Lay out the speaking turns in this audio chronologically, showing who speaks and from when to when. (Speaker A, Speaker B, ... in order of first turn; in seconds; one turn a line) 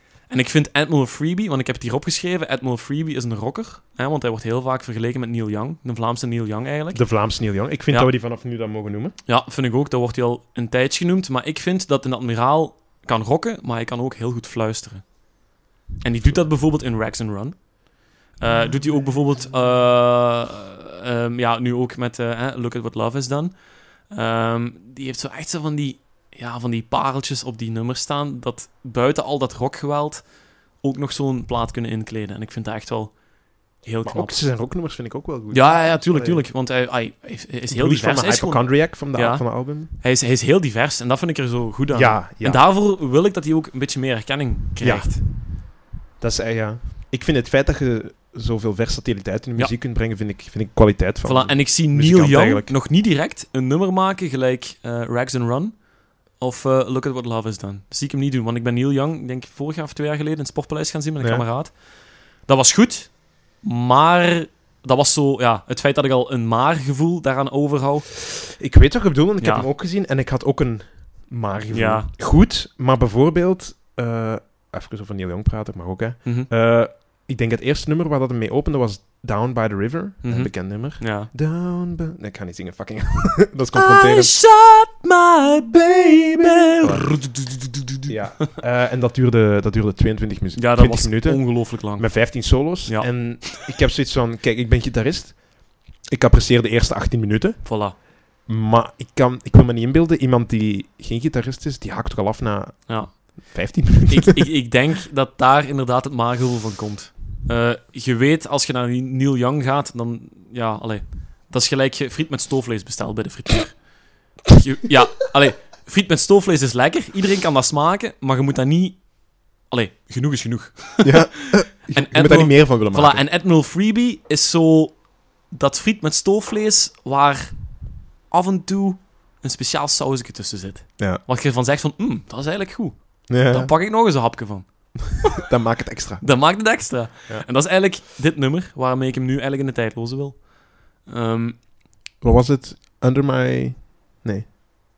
Speaker A: 0.3-8.2
Speaker B: 6.9-9.2
Speaker A: 9.2-34.6
Speaker B: 16.2-16.5
Speaker B: 18.5-19.5
Speaker B: 34.0-36.5
Speaker A: 35.5-45.2
Speaker B: 37.7-40.0
Speaker B: 41.9-42.6
Speaker B: 44.8-52.7
Speaker A: 51.2-68.1
Speaker B: 61.2-61.5
Speaker B: 68.6-84.3
Speaker A: 69.4-69.7
Speaker A: 71.7-72.1
Speaker A: 76.2-76.5
Speaker A: 80.2-81.3
Speaker A: 83.7-88.2
Speaker B: 86.8-87.2
Speaker B: 88.1-104.5
Speaker A: 90.5-93.5
Speaker A: 97.6-98.0
Speaker A: 102.9-135.4
Speaker B: 121.0-123.2
Speaker B: 133.3-133.8
Speaker B: 135.5-137.5
Speaker A: 136.2-141.7
Speaker B: 142.2-144.5